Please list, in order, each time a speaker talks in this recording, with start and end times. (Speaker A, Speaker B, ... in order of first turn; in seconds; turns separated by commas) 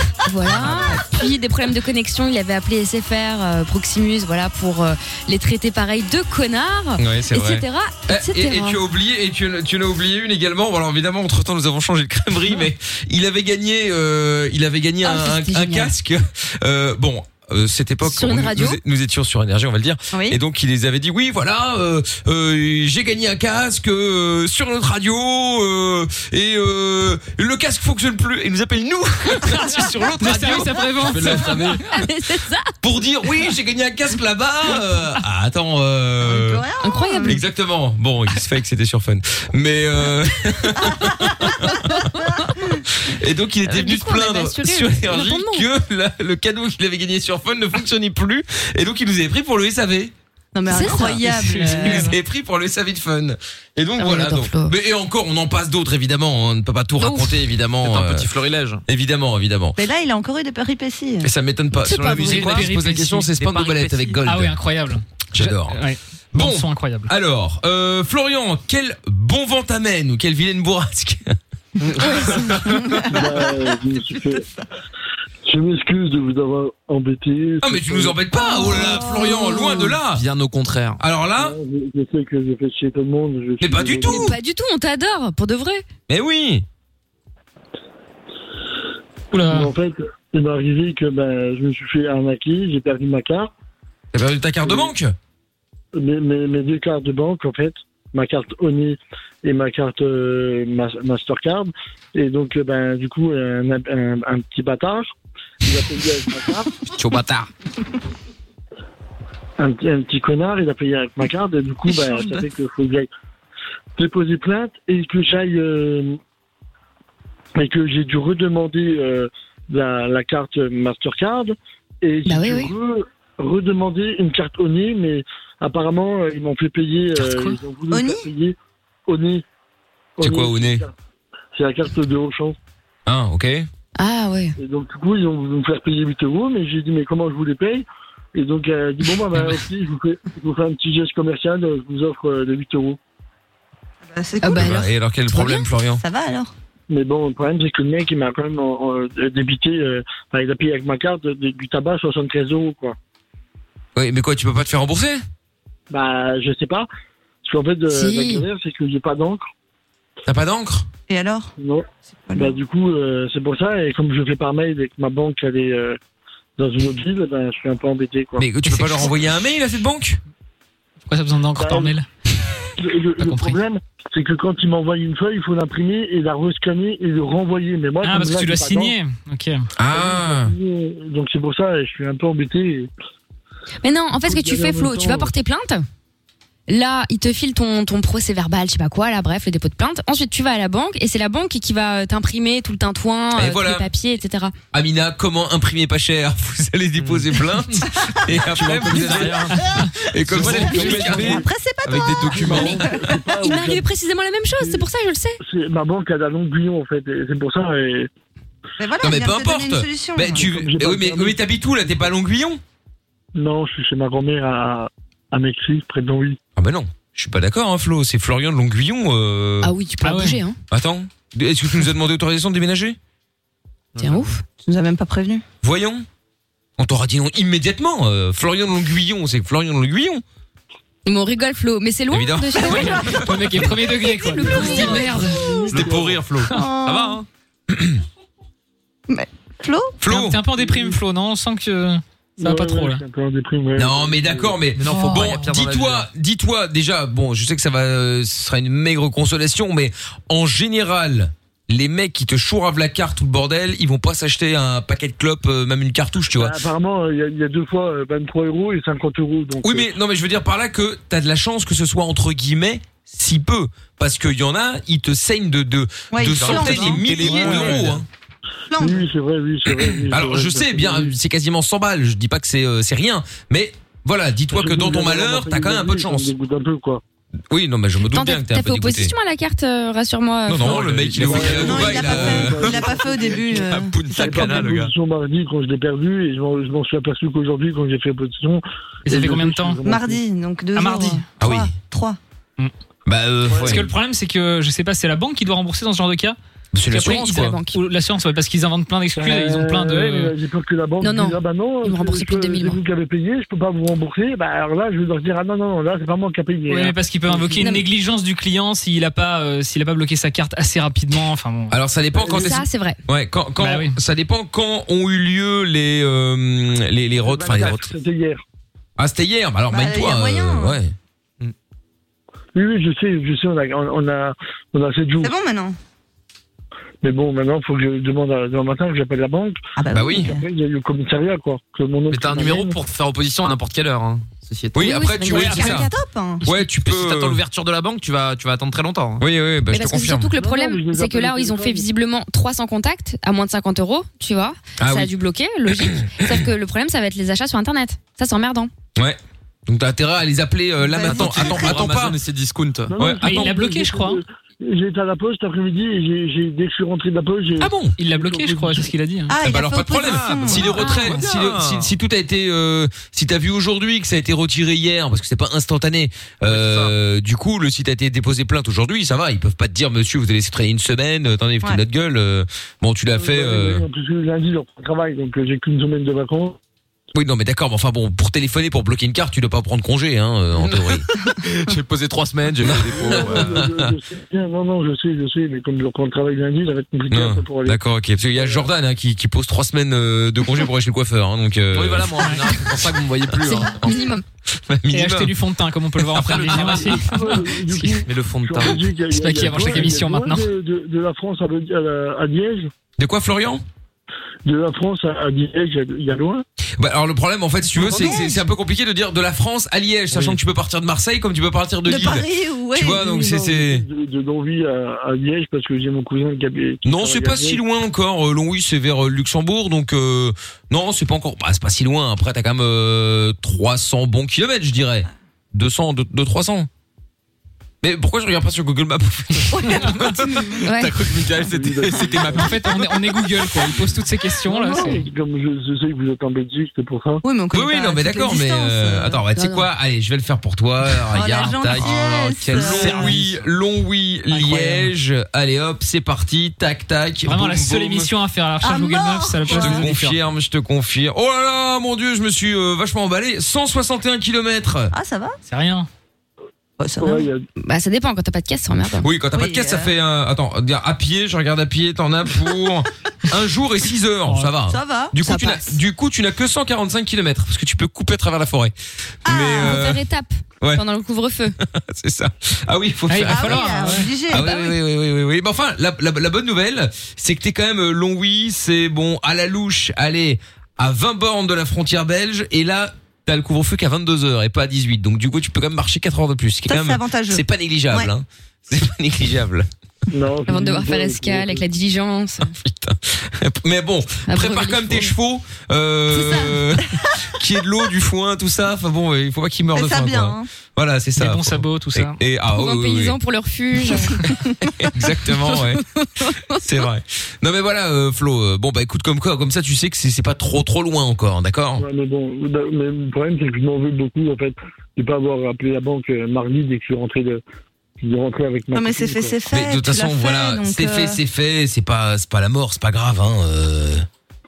Speaker A: 0.2-8.8, Speaker B: 0.5-1.1, Speaker B: 7.0-32.0, Speaker A: 15.0-15.9, Speaker A: 18.0-18.8, Speaker C: 20.1-20.4, Speaker D: 30.2-31.7, Speaker A: 31.3-32.7, Speaker B: 32.8-36.6, Speaker C: 36.2-37.4, Speaker A: 36.8-37.4, Speaker B: 37.2-41.9, Speaker B: 43.0-50.1, Speaker A: 43.7-45.6, Speaker C: 50.5-52.1, Speaker A: 50.7-52.1, Speaker B: 51.5-58.3, Speaker A: 54.0-54.7, Speaker A: 57.0-57.4, Speaker E: 57.8-58.8, Speaker B: 58.9-59.8, Speaker C: 59.8-61.3, Speaker B: 61.2-64.5, Speaker A: 61.9-62.4, Speaker D: 62.1-63.3, Speaker E: 62.1-64.2, Speaker D: 64.2-67.1, Speaker B: 65.3-65.8, Speaker B: 66.3-71.4, Speaker B: 72.0-73.0, Speaker F: 73.1-74.5, Speaker F: 75.5-78.2, Speaker B: 77.6-80.2, Speaker C: 78.8-79.5, Speaker E: 80.1-81.0, Speaker B: 81.0-81.6, Speaker F: 81.4-84.3, Speaker B: 83.6-84.4, Speaker A: 84.0-85.8, Speaker B: 86.1-86.7, Speaker D: 89.3-89.7, Speaker F: 89.4-93.5, Speaker B: 94.1-95.2, Speaker F: 94.6-94.9, Speaker F: 96.0-105.1, Speaker F: 105.6-106.7, Speaker E: 107.0-107.5, Speaker F: 109.6-113.1, Speaker F: 114.0-116.2, Speaker F: 117.6-128.6, Speaker A: 122.3-122.7, Speaker A: 127.2-127.5, Speaker C: 127.9-128.3, Speaker F: 129.1-129.4, Speaker F: 130.2-130.9, Speaker B: 130.2-130.8, Speaker F: 131.6-132.6, Speaker B: 133.1-133.7, Speaker A: 134.0-134.6, Speaker F: 134.6-143.0, Speaker C: 144.1-144.7, Speaker A: 144.4-145.7, Speaker B: 144.5-146.0, Speaker C: 146.0-146.5, Speaker F: 146.9-153.0, Speaker B: 154.0-155.2, Speaker F: 155.9-156.9, Speaker F: 157.4-159.4, Speaker A: 157.9-158.5, Speaker B: 160.3-160.9, Speaker C: 161.1-161.5, Speaker F: 161.6-166.0, Speaker C: 162.3-162.5, Speaker F: 166.6-168.5, Speaker B: 168.4-170.2, Speaker D: 168.7-169.0, Speaker D: 171.1-172.1, Speaker F: 171.6-171.9, Speaker F: 172.8-178.9, Speaker D: 173.2-173.6, Speaker D: 178.0-179.6, Speaker B: 179.8-180.5, Speaker F: 179.9-182.9, Speaker A: 183.8-185.8, Speaker F: 184.2-185.3, Speaker A: 186.7-194.5, Speaker B: 193.3-193.9, Speaker B: 194.7-202.9, Speaker E: 197.0-197.3, Speaker E: 198.5-199.6, Speaker D: 199.6-199.9, Speaker E: 200.3-201.4, Speaker C: 200.4-203.0, Speaker F: 202.3-203.9, Speaker A: 203.4-205.4, Speaker F: 205.4-208.1, Speaker C: 208.8-210.5, Speaker B: 209.0-212.6, Speaker F: 210.3-211.4, Speaker F: 213.4-216.4, Speaker B: 216.6-219.7, Speaker A: 219.6-220.6, Speaker D: 220.0-220.4, Speaker B: 220.7-223.0, Speaker E: 224.0-224.3, Speaker A: 224.0-224.4, Speaker C: 224.6-225.4, Speaker B: 225.6-226.1, Speaker B: 226.8-230.2, Speaker A: 231.1-233.1, Speaker B: 232.1-233.1, Speaker C: 232.6-233.1, Speaker D: 232.7-235.6, Speaker A: 233.9-235.7, Speaker F: 234.4-236.2, Speaker E: 235.7-237.2, Speaker B: 235.8-236.2, Speaker C: 236.5-237.2, Speaker B: 237.7-238.0, Speaker C: 239.1-240.0, Speaker B: 240.0-240.4, Speaker D: 240.1-243.0, Speaker F: 240.6-241.0, Speaker F: 242.4-244.6, Speaker B: 243.8-256.6, Speaker E: 244.7-246.1, Speaker D: 244.9-245.4, Speaker F: 256.4-259.9, Speaker B: 259.6-268.1, Speaker C: 266.1-267.7, Speaker E: 266.2-268.0, Speaker C: 268.7-269.0, Speaker F: 268.8-271.1, Speaker B: 270.1-276.3, Speaker F: 274.5-277.0, Speaker B: 277.5-279.1, Speaker A: 278.1-280.8, Speaker B: 280.5-284.9, Speaker E: 280.5-281.8, Speaker F: 281.2-290.2, Speaker C: 281.5-284.5, Speaker E: 284.3-284.6, Speaker D: 289.1-289.8, Speaker C: 289.9-292.2, Speaker D: 290.8-291.2, Speaker B: 291.4-291.7, Speaker B: 293.1-293.9, Speaker D: 293.6-296.4, Speaker B: 296.7-297.6, Speaker D: 296.9-300.3, Speaker A: 297.0-297.8, Speaker F: 299.1-307.6, Speaker A: 301.0-302.8, Speaker D: 306.7-311.8, Speaker A: 307.6-307.9, Speaker B: 311.7-317.9, Speaker F: 312.2-312.5, Speaker A: 312.3-313.0, Speaker D: 313.6-314.0, Speaker F: 317.2-318.4, Speaker B: 319.0-320.9, Speaker C: 319.7-320.8, Speaker F: 322.6-325.3, Speaker C: 325.2-325.8, Speaker F: 327.0-329.6, Speaker C: 329.8-330.4, Speaker B: 329.9-330.3, Speaker F: 330.2-332.8, Speaker E: 332.1-335.0, Speaker B: 334.7-335.9, Speaker A: 334.8-335.6, Speaker C: 335.2-336.4, Speaker B: 336.4-337.4, Speaker E: 336.7-339.2, Speaker B: 339.2-340.4, Speaker A: 339.7-348.7, Speaker F: 340.4-341.9, Speaker B: 344.8-345.1, Speaker B: 345.7-346.3, Speaker B: 349.0-352.2, Speaker C: 350.8-351.9, Speaker E: 351.0-352.9, Speaker F: 352.9-358.9, Speaker B: 353.0-353.4, Speaker D: 353.2-354.2, Speaker B: 357.6-357.9, Speaker D: 358.0-359.3, Speaker C: 359.3-360.9, Speaker B: 359.4-373.8, Speaker E: 360.0-361.9, Speaker E: 366.5-366.9, Speaker F: 373.2-376.6, Speaker B: 377.1-381.1, Speaker E: 381.4-383.6, Speaker B: 382.6-383.9, Speaker F: 383.0-387.8, Speaker B: 387.1-392.1, Speaker F: 388.4-388.6, Speaker E: 391.7-394.0, Speaker A: 393.4-394.2, Speaker B: 394.6-395.3, Speaker D: 394.9-398.0, Speaker B: 396.1-396.9, Speaker E: 396.2-396.9, Speaker F: 396.6-402.7, Speaker E: 398.1-398.9, Speaker D: 399.1-400.5, Speaker B: 403.0-403.6, Speaker F: 404.4-406.4, Speaker B: 406.8-413.9, Speaker C: 407.9-408.4, Speaker C: 411.9-413.1, Speaker F: 412.9-417.6, Speaker B: 416.8-426.7, Speaker B: 427.8-432.3, Speaker C: 429.6-430.5, Speaker A: 430.6-431.0, Speaker E: 431.0-432.1, Speaker F: 431.4-432.5, Speaker D: 432.3-435.1, Speaker F: 434.5-437.2, Speaker C: 437.2-439.2, Speaker B: 437.5-448.1, Speaker A: 439.4-439.7, Speaker C: 441.1-443.2, Speaker E: 441.7-443.4, Speaker D: 444.3-444.9, Speaker D: 447.3-450.2, Speaker C: 448.6-449.8, Speaker B: 449.5-454.9, Speaker C: 454.9-455.4, Speaker D: 455.5-455.9, Speaker C: 456.8-457.3, Speaker F: 457.0-457.4, Speaker A: 457.6-459.1, Speaker B: 459.0-468.7, Speaker C: 459.3-459.9, Speaker C: 464.7-465.1, Speaker A: 465.2-465.8, Speaker B: 469.2-470.0, Speaker C: 469.3-469.8, Speaker A: 469.6-471.6, Speaker B: 471.6-489.7, Speaker D: 473.1-474.1, Speaker C: 473.2-474.8, Speaker C: 486.7-488.1, Speaker F: 490.1-491.6, Speaker A: 490.5-492.5, Speaker B: 492.6-503.2, Speaker A: 494.3-495.1, Speaker A: 496.1-496.6, Speaker C: 499.7-500.5, Speaker D: 501.2-502.2, Speaker A: 502.5-504.2, Speaker B: 504.8-505.8, Speaker B: 506.6-511.8, Speaker F: 511.8-517.4, Speaker F: 518.0-519.3, Speaker C: 518.7-521.2, Speaker B: 519.5-524.1